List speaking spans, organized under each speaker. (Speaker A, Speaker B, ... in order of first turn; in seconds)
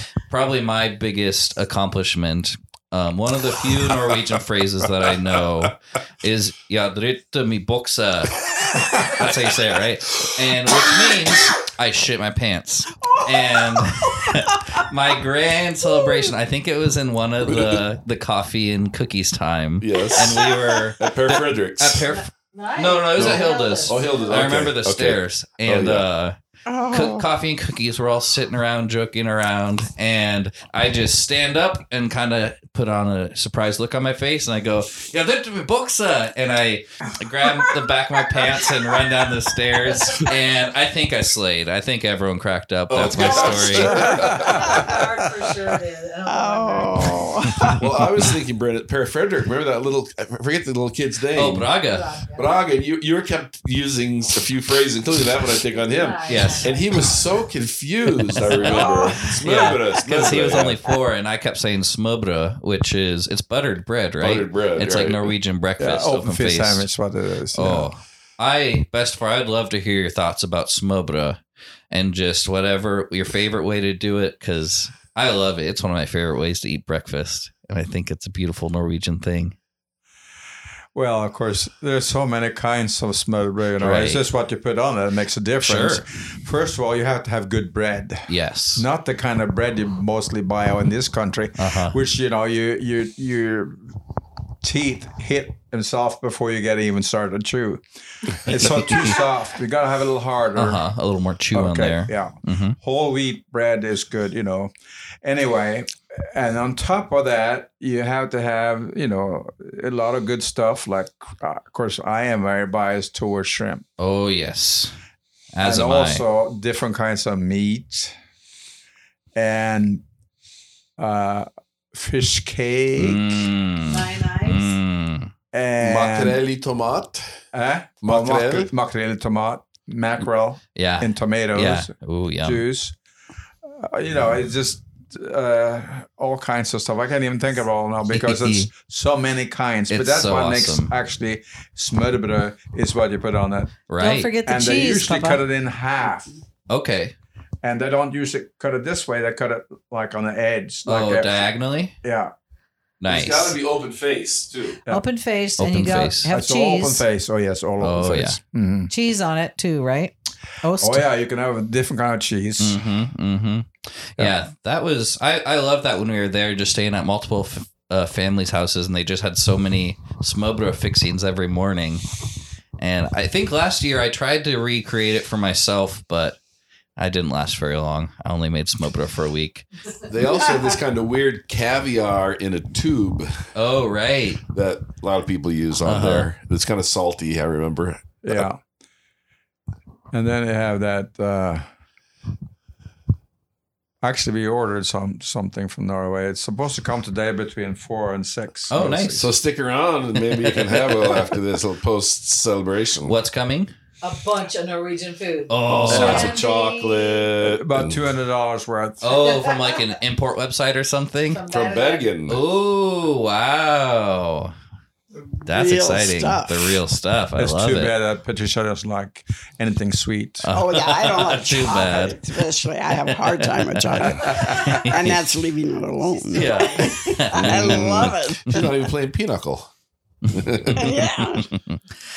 Speaker A: 0.3-26.4, 26.9-44.3, 51.3-52.1, 56.3-56.7, 58.2-66.8, 67.5-71.4, 71.9-79.5, 83.8-84.2, 85.6-86.0, 88.3-88.8, 91.6-92.0, 98.5-99.2, 100.5-102.8, 114.0-115.0, 115.5-116.2, 123.0-125.3, 130.8-132.6, 138.1-138.7, 139.9-140.9, 143.9-144.3, 146.7-147.1, 150.8-151.9, 153.0-153.6, 155.6-156.3, 157.8-158.4, 162.6-172.1, 172.8-176.4, 177.0-179.7, 183.5-184.4, 185.8-186.3, 198.7-199.3, 203.0-203.7, 205.5-206.4, 209.0-211.4, 212.3-214.5, 215.4-217.9, 220.4-222.3, 222.9-225.2, 226.3-228.7, 230.3-231.8
Speaker B: 13.0-14.8, 15.9-16.3, 20.1-20.7, 26.6-27.2, 46.3-47.8, 58.7-59.2, 215.4-216.8, 220.5-228.8, 230.8-231.5
Speaker C: 17.4-17.8, 19.8-20.5, 21.0-22.0, 23.2-26.1, 42.9-44.9, 47.8-51.7, 52.3-60.8, 64.2-65.3, 125.8-127.4, 128.0-128.7, 153.1-154.8, 180.1-183.4, 184.5-188.4, 199.1-203.2, 205.7-208.0, 211.5-212.4, 227.3-229.7, 230.3-230.9
Speaker D: 22.0-24.3, 43.2-47.3, 51.9-52.6, 55.7-57.1, 58.7-59.1, 123.9-124.8, 144.0-145.4, 154.9-157.0, 158.9-161.0, 204.0-207.3, 209.1-209.9, 211.3-212.1
Speaker E: 43.9-44.8, 65.8-67.9, 80.9-93.8, 94.6-100.8, 101.5-104.7, 105.2-113.8, 115.6-118.1, 119.3-120.0, 121.0-123.5, 125.5-126.4, 127.5-132.9, 133.7-143.7, 144.4-146.3, 147.6-151.5, 152.0-152.3, 156.3-158.9, 160.8-162.8, 188.2-188.6, 190.1-191.7, 194.0-199.3, 207.4-209.2, 217.4-220.5, 224.3-224.7